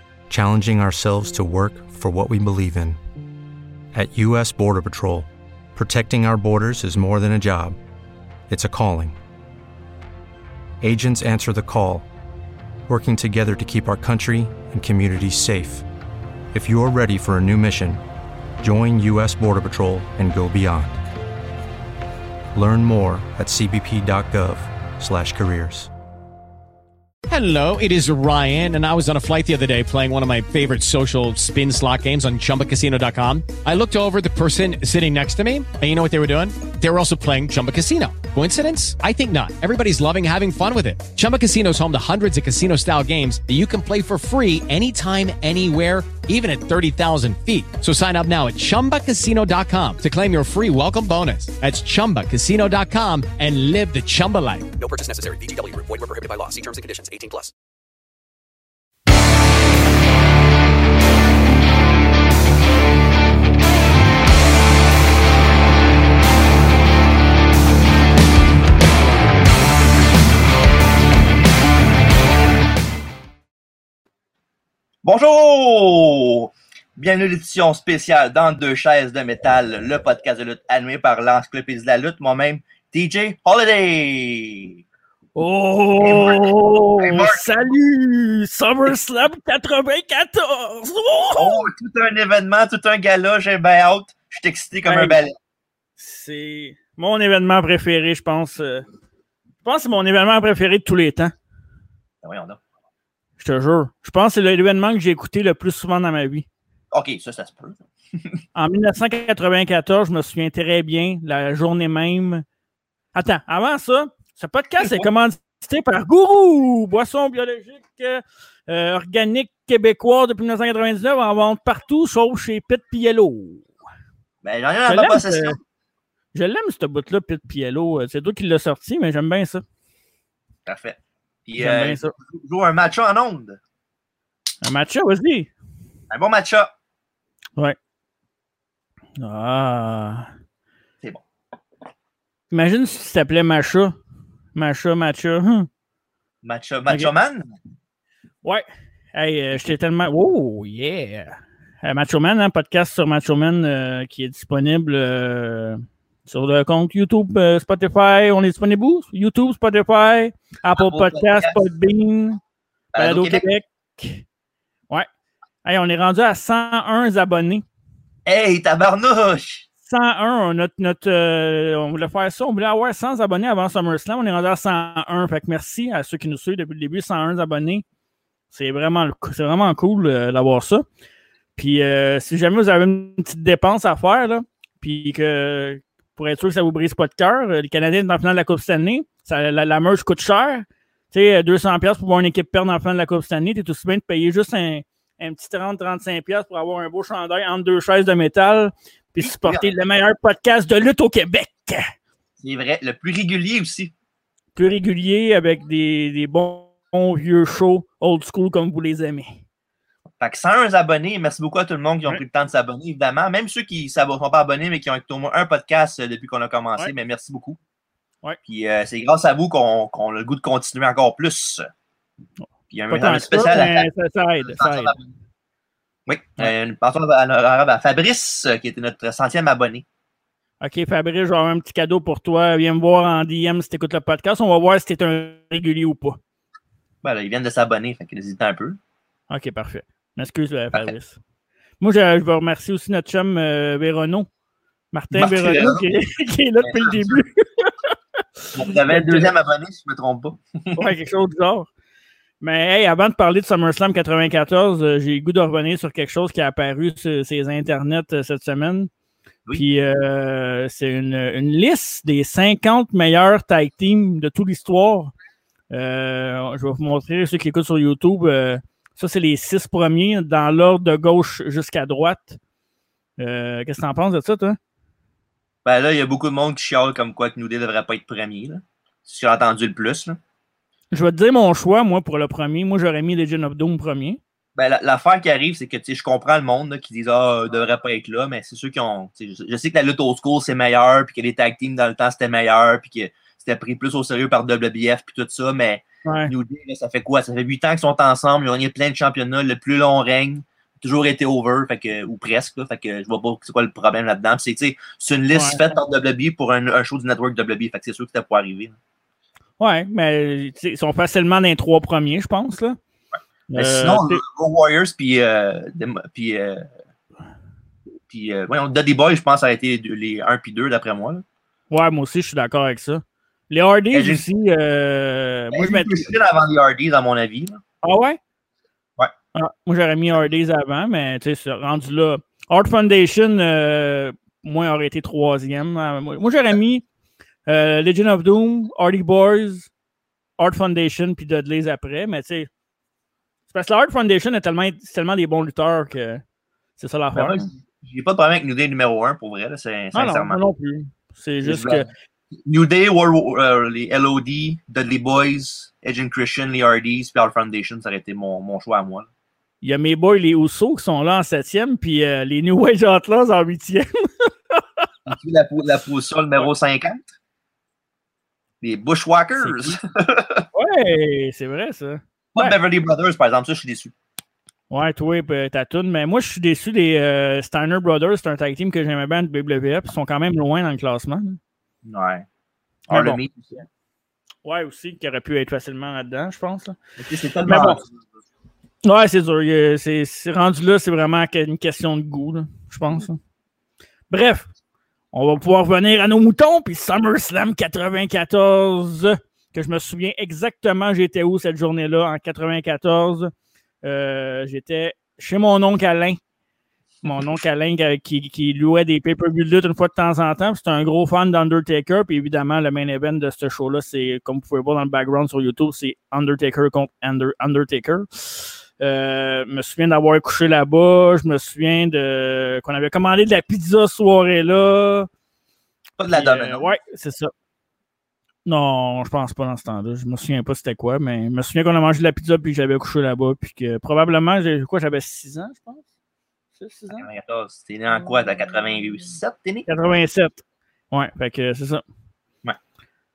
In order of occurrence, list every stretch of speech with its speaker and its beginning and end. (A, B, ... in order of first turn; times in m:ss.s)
0:00.3-0:03.0 A
0:03.9-0:07.8 A
0:08.5-0:09.2 A
0:10.8-0:12.1 A
0:12.9-0:15.8 A
0:16.5-0:18.0 A
0:18.6-0:21.0 A
0:22.5-0:25.9 A
0:27.3-0:54.7 B
0:54.8-0:57.5 C
1:15.0-1:24.8 D
1:25.4-1:31.7 E
1:26.0-1:27.7 D
1:31.4-1:35.4 D
1:34.8-1:35.2 E
1:36.0-1:38.8 E
1:39.6-1:41.3 E
1:42.2-1:42.6 D
1:43.4-1:46.5 E
1:46.9-1:47.8 D
1:48.5-1:52.4 E
1:53.1-2:03.7 E
2:04.4-2:05.6 D
2:04.9-2:05.6 E
2:06.3-2:09.6 E
2:10.6-2:13.6 D
2:11.6-2:12.1 E
2:14.6-2:15.5 E
2:16.1-2:16.7 D
2:19.2-2:20.3 E
2:22.5-2:24.0 E
2:24.5-2:25.7 E
2:26.4-2:27.6 D
2:28.4-2:42.4 E
2:40.8-2:41.6 D
2:42.9-2:43.4 D
2:42.9-2:44.2 E
2:45.6-2:47.6 E
2:48.2-2:49.6 D
2:49.9-2:57.8 E
2:58.5-3:00.8 E
3:01.6-3:21.9 E
3:19.2-3:19.7 D
3:22.4-3:23.9 D
3:24.6-3:29.4 E
3:30.2-3:37.6 D
3:38.5-3:41.7 D
3:42.7-3:43.9 D
3:42.9-3:45.0 E
3:44.4-3:45.1 D
3:46.1-3:49.8 D
3:50.6-3:56.2 E
3:57.0-3:58.8 D
3:59.3-4:01.2 E
4:01.8-4:04.3 E
4:04.9-4:07.7 E
4:05.1-4:05.9 D
4:06.6-4:07.2 D
4:08.4-4:09.3 E
4:08.5-4:10.8 D
4:10.7-4:11.7 E
4:12.4-4:18.9 E
4:19.5-4:25.1 E
4:25.7-4:32.4 E
4:33.2-4:34.6 E
4:35.6-4:40.2 D
4:40.9-4:44.2 E
4:44.6-5:08.8 D
4:56.0-4:56.3 E
5:05.3-5:05.6 E
5:09.6-5:12.8 E
5:13.5-5:14.2 E
5:13.5-5:16.7 D
5:18.1-5:21.2 D
5:21.7-5:26.1 E
5:23.9-5:24.2 D
5:25.5-5:27.6 D
5:27.8-5:28.2 E
5:29.3-5:36.8 E
5:37.4-5:39.7 E
5:40.4-5:42.5 E
5:43.5-5:46.2 E
5:46.8-5:47.5 E
5:47.1-5:50.4 D
5:49.9-5:51.9 E
5:51.4-5:51.9 D
5:52.4-5:59.1 D
5:59.6-6:05.2 E
6:05.1-6:07.0 D
6:08.6-6:10.4 D
6:09.4-6:09.8 E
6:10.5-6:12.6 E
6:12.3-6:13.9 D
6:14.7-6:21.4 E
6:21.8-6:22.2 D
6:22.9-6:23.2 E
6:22.9-6:23.6 D
6:24.4-6:26.8 E
6:27.0-6:27.9 D
6:27.5-6:27.8 E
6:28.8-6:33.2 E
6:34.1-6:34.5 E
6:35.1-6:43.3 E
6:43.8-6:46.2 E
6:47.0-7:05.1 E
7:06.0-7:06.7 D
7:06.1-7:07.3 E
7:08.4-7:15.8 E
7:16.6-7:17.1 E
7:16.9-7:19.7 D
7:19.7-7:21.8 E